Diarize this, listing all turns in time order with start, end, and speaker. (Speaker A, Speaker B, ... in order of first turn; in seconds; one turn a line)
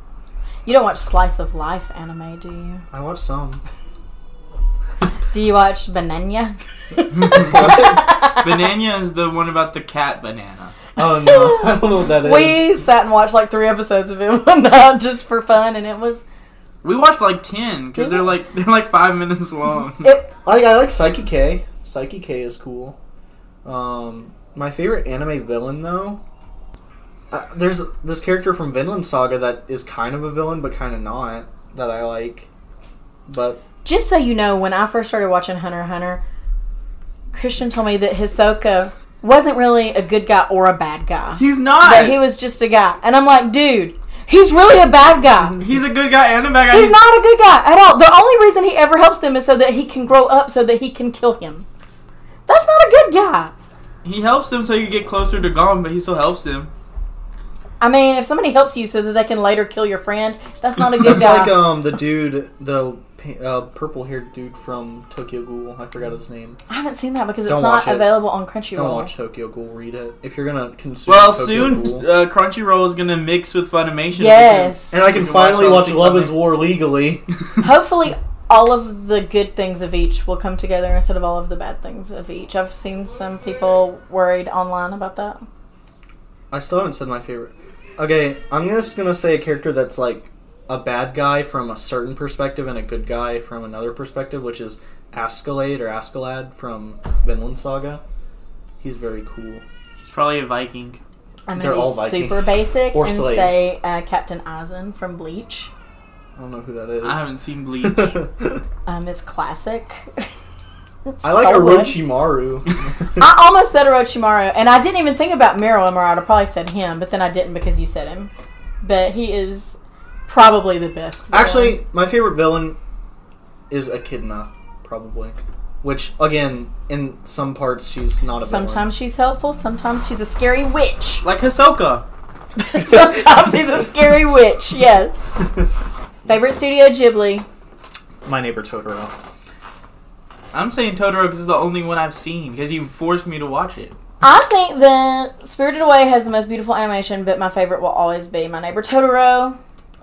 Speaker A: 0.7-2.8
Speaker B: 2.9-3.6
Speaker A: 5.3-8.5
Speaker C: 7.3-10.8
Speaker B: 7.4-7.9
Speaker B: 11.0-12.7
Speaker A: 11.2-16.2
Speaker C: 16.8-20.1
Speaker A: 18.0-18.3
Speaker A: 20.0-20.3
Speaker B: 20.4-23.0
Speaker B: 23.6-26.2
Speaker B: 27.3-32.5
Speaker B: 33.3-33.6
Speaker A: 33.8-36.2
Speaker A: 37.3-45.6
Speaker C: 41.4-42.2
Speaker C: 45.6-47.0
Speaker A: 46.7-51.7
Speaker A: 52.5-53.5
Speaker C: 54.0-56.7
Speaker A: 57.8-61.6
Speaker B: 61.0-66.6
Speaker A: 66.7-69.1
Speaker B: 67.5-68.1
Speaker B: 68.8-72.1
Speaker C: 71.1-76.4
Speaker A: 74.2-75.0
Speaker B: 74.9-77.2
Speaker A: 77.6-85.5
Speaker B: 86.5-98.0
Speaker B: 98.8-99.6
Speaker C: 100.0-101.0
Speaker A: 101.5-105.7
Speaker B: 101.6-103.7
Speaker B: 106.4-108.6
Speaker C: 107.0-108.2
Speaker A: 108.9-110.3
Speaker A: 111.1-112.0
Speaker B: 111.2-113.1
Speaker A: 113.2-118.3
Speaker A: 118.8-121.8
Speaker B: 121.3-122.8
Speaker B: 123.7-128.9
Speaker A: 128.4-131.2
Speaker C: 131.2-132.1
Speaker A: 132.6-135.3
Speaker A: 136.3-137.5
Speaker B: 138.2-139.1
Speaker C: 140.5-143.9
Speaker A: 144.2-149.6